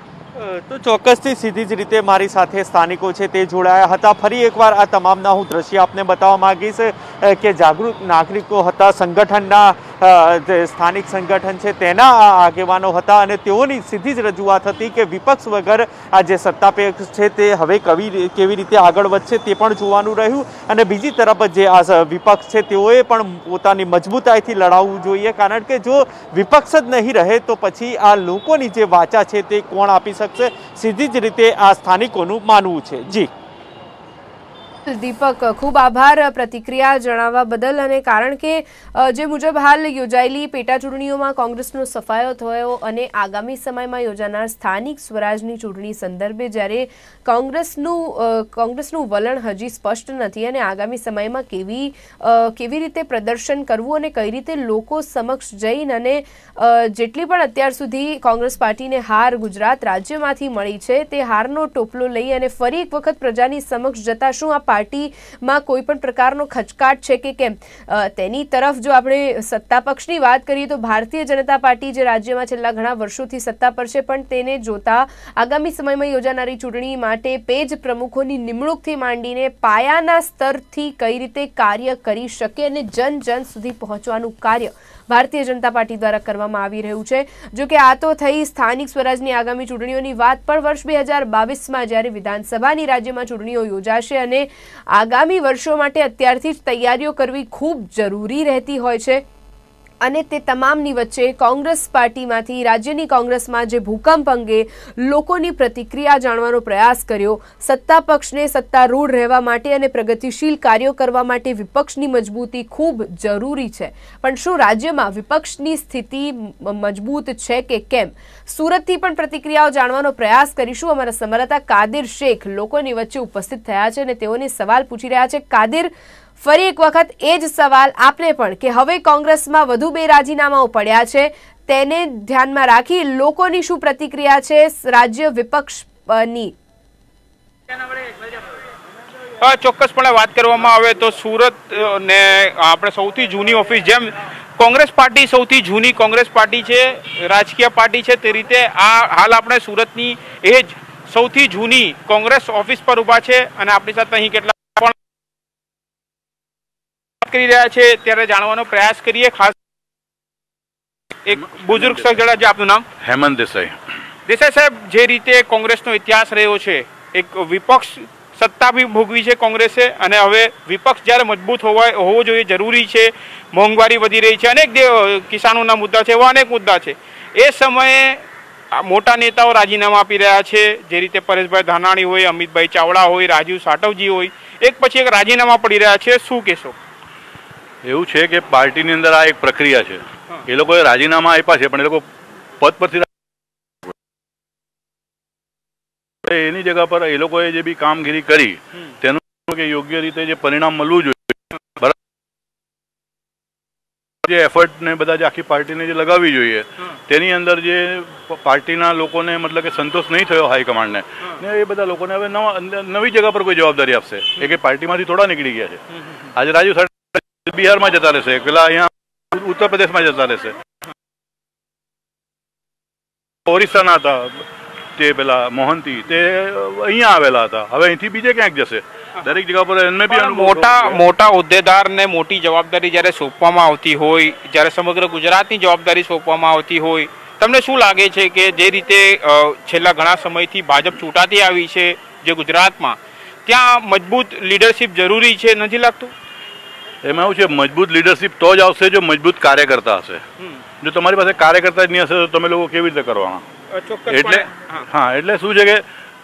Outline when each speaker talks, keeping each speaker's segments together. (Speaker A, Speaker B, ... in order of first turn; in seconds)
Speaker A: 0.3-33.3
Speaker B: 34.9-99.2, 100.0-136.5
Speaker C: 139.4-154.9, 157.2-159.5, 161.2-162.8, 164.3-178.2, 178.8-186.7, 230.1-246.1, 253.7-254.8
Speaker D: 161.3-162.1, 163.0-163.8, 187.8-192.0, 192.6-193.1, 196.2-201.9, 204.2-215.8, 216.3-220.5, 223.5-224.4, 225.0-231.0, 247.0-250.2, 250.8-253.4, 254.1-255.8